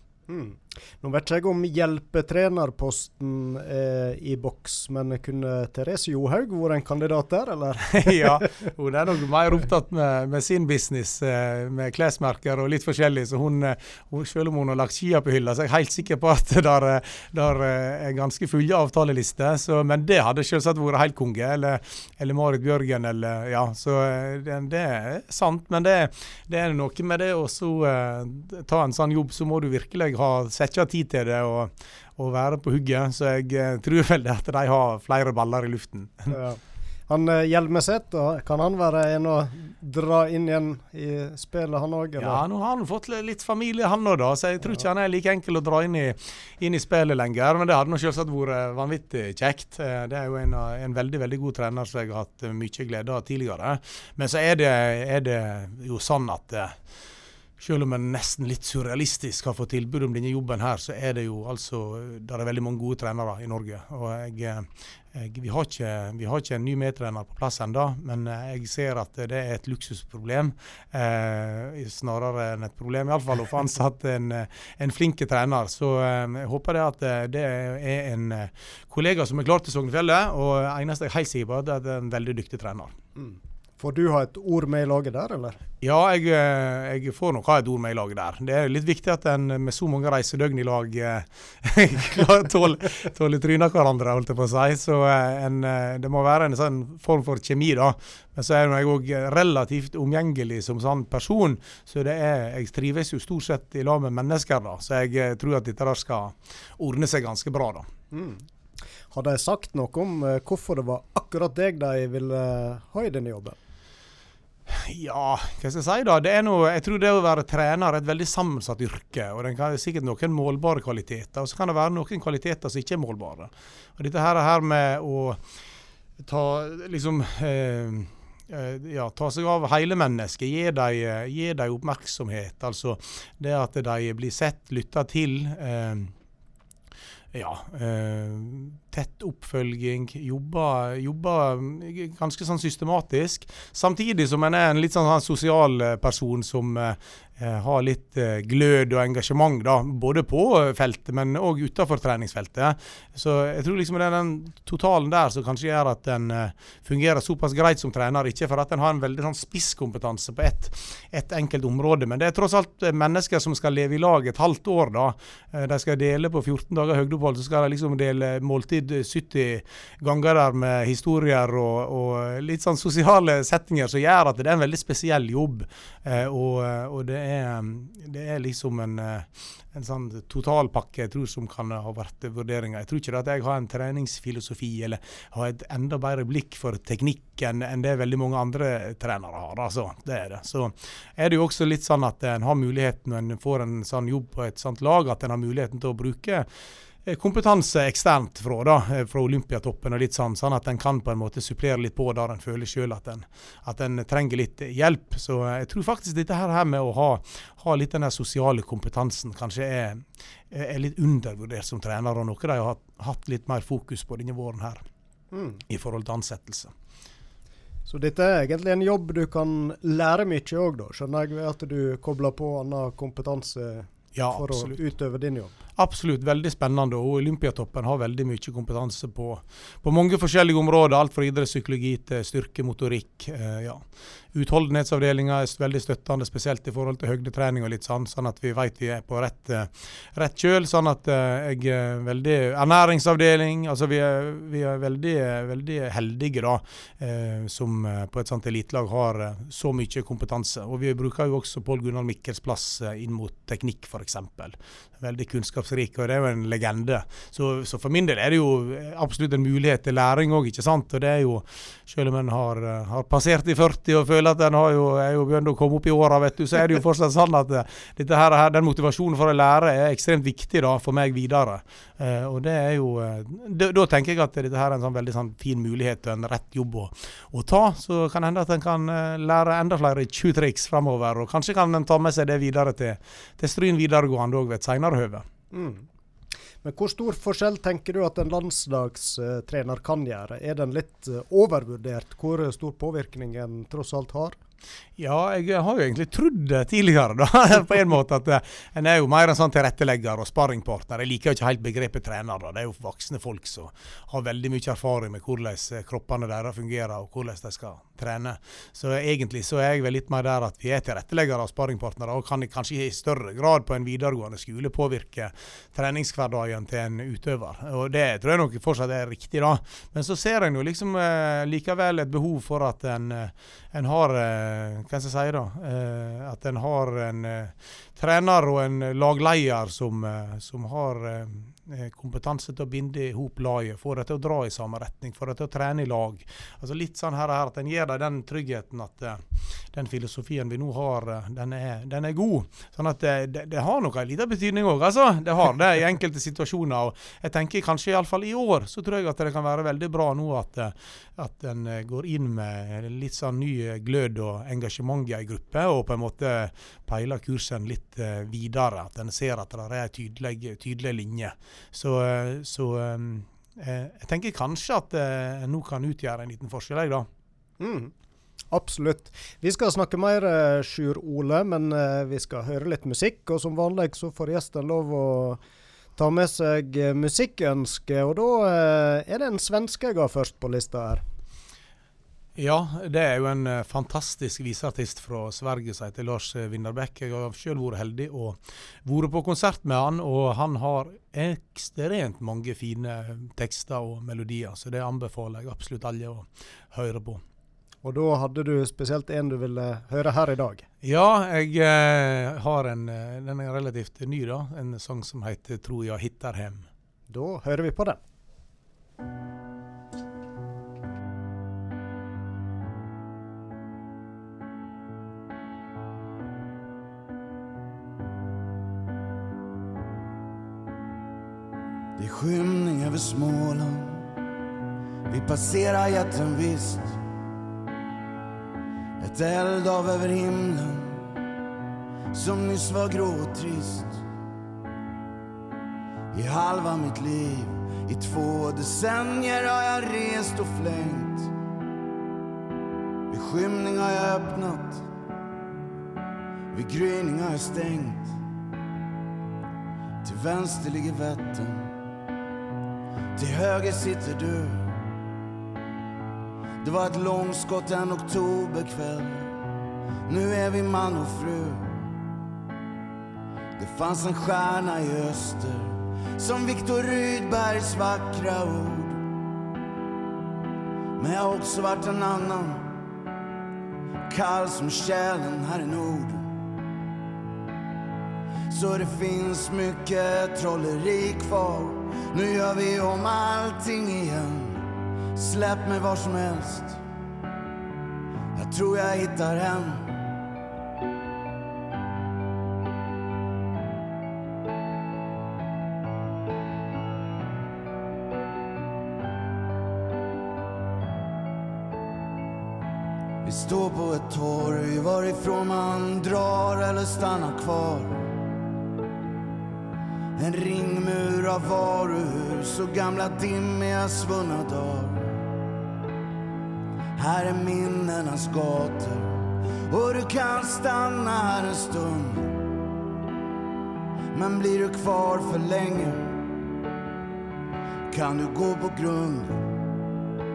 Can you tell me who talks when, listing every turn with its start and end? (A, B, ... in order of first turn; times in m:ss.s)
0:00.3-0:08.5 A
0:07.9-0:36.3 B
0:36.3-0:42.4 A
0:42.2-0:56.7 B
0:57.6-1:22.9 B
1:23.2-1:25.6 A
1:25.8-1:47.9 B
1:48.1-1:48.4 A
1:49.1-1:53.6 A
1:54.7-2:05.4 B
2:06.2-2:16.1 B
2:17.3-3:16.5 B
3:17.0-3:34.8 B
3:35.3-3:35.6 A
3:35.7-3:36.7 B
3:37.8-3:45.5 A
3:44.2-3:44.8 B
3:45.8-3:53.8 B
3:54.3-4:45.2 B
4:45.5-4:45.8 A
4:46.6-4:54.4 A
4:55.0-6:07.1 B
6:07.6-6:07.9 A
6:08.5-6:15.4 A
6:16.0-6:21.0 A
6:22.4-6:37.2 B
6:37.8-6:40.6 A
6:40.8-6:46.7 B
6:47.1-6:48.0 A
7:02.0-7:04.1 C
7:05.1-7:07.0 C
7:09.0-7:11.0 C
7:12.1-7:14.0 C
7:16.1-7:21.3 C
7:23.1-7:24.8 C
7:26.5-7:28.2 C
7:30.0-7:31.7 C
7:33.2-7:34.8 C
7:36.6-7:39.3 C
7:40.1-7:41.9 C
7:43.6-7:49.0 C
7:51.0-7:52.8 C
7:54.1-7:56.3 C
7:58.5-8:06.8 C
8:08.3-8:10.0 C
8:23.2-8:28.2 C
8:30.2-8:35.2 C
8:37.0-8:42.4 C
8:44.1-8:46.2 C
8:47.9-8:49.5 C